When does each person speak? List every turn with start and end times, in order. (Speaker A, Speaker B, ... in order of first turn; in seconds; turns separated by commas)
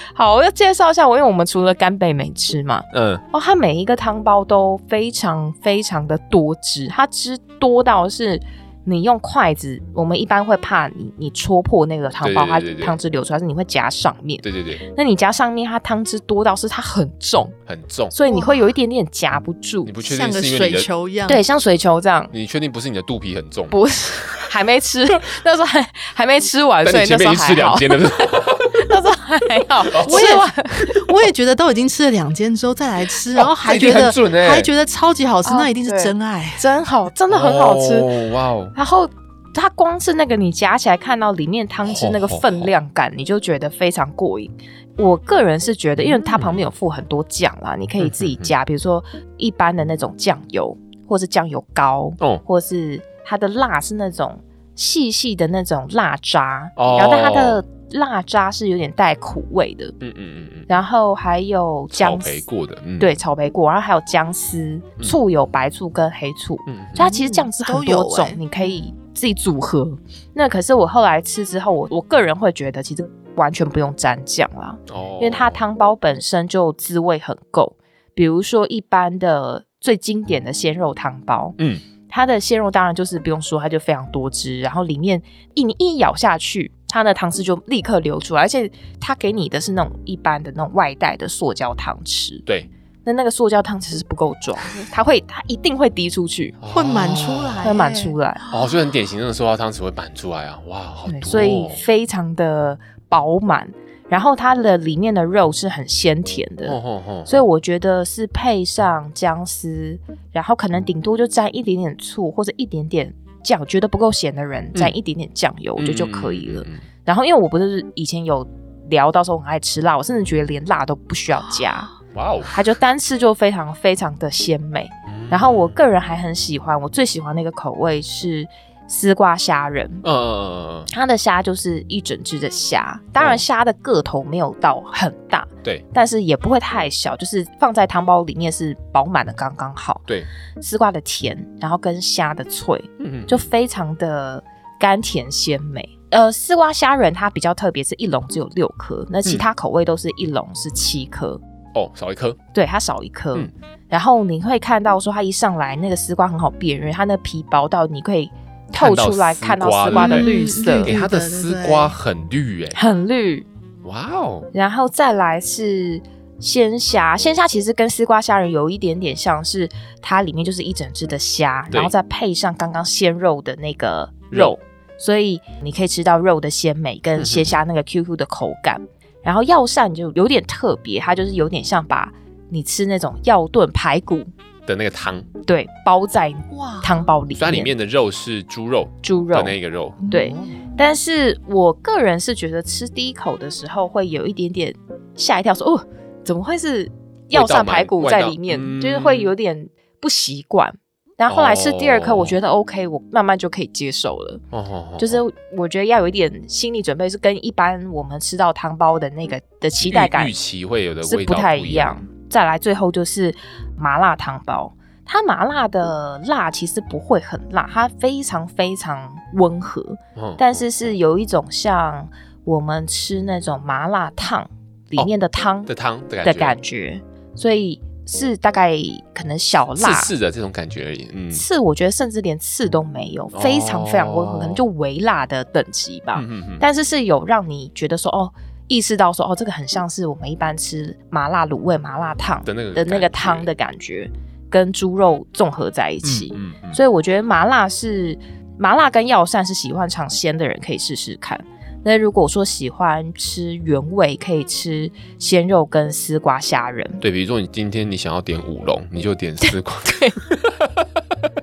Speaker A: 0.1-17.6, Speaker B: 2.9-3.2, Speaker B: 12.2-13.0, Speaker B: 14.4-14.8, Speaker B: 17.7-18.1, Speaker A: 18.1-19.9, Speaker C: 18.3-18.7, Speaker B: 19.9-20.9, Speaker C: 20.1-21.4, Speaker A: 21.3-22.3, Speaker B: 22.3-23.8, Speaker A: 23.7-31.1, Speaker B: 26.8-28.8, Speaker B: 29.9-30.4, Speaker C: 30.0-36.7, Speaker B: 33.3-34.7, Speaker A: 35.5-38.1, Speaker B: 37.3-38.7, Speaker A: 38.7-59.9, Speaker B: 41.8-42.7, Speaker B: 46.1-46.6, Speaker B: 48.0-48.5, Speaker B: 56.8-57.6, Speaker B: 60.0-60.7, Speaker A: 60.7-62.4, Speaker B: 61.9-63.2, Speaker A: 63.0-92.5, Speaker B: 66.7-67.0, Speaker C: 67.0-68.4, Speaker B: 74.9-75.6, Speaker B: 81.6-81.8, Speaker A: 93.0-96.6, Speaker B: 96.6-97.8, Speaker C: 96.7-98.1, Speaker A: 97.6-98.4, Speaker B: 98.5-101.8, Speaker A: 101.1-121.9, Speaker B: 106.7-107.5, Speaker B: 115.8-116.8, Speaker B: 122.1-122.5, Speaker A: 122.5-130.0, Speaker B: 125.1-125.8, Speaker B: 130.0-130.9, Speaker A: 130.9-140.1, Speaker A: 140.6-151.4, Speaker B: 143.0-143.5, Speaker B: 151.8-152.4, Speaker A: 152.5-160.9, Speaker B: 158.7-162.8, Speaker C: 159.9-161.9, Speaker A: 162.7-163.5, Speaker B: 163.8-164.5, Speaker A: 164.5-184.3, Speaker B: 177.2-177.6, Speaker B: 184.7-185.3, Speaker A: 185.5-187.7, Speaker C: 186.5-186.9, Speaker B: 187.3-190.0, Speaker A: 189.0-204.4, Speaker C: 190.0-190.7, Speaker B: 197.3-199.3, Speaker B: 201.3-202.4, Speaker B: 204.5-205.2, Speaker A: 205.0-210.3, Speaker B: 209.8-212.0, Speaker A: 211.0-225.7, Speaker B: 220.2-220.4, Speaker B: 225.7-226.6, Speaker A: 226.2-230.1, Speaker B: 229.8-231.4, Speaker A: 231.3-257.0, Speaker B: 233.3-234.6, Speaker B: 236.2-236.7, Speaker B: 242.5-243.5, Speaker B: 246.0-246.8, Speaker B: 257.0-260.9, Speaker A: 259.4-260.2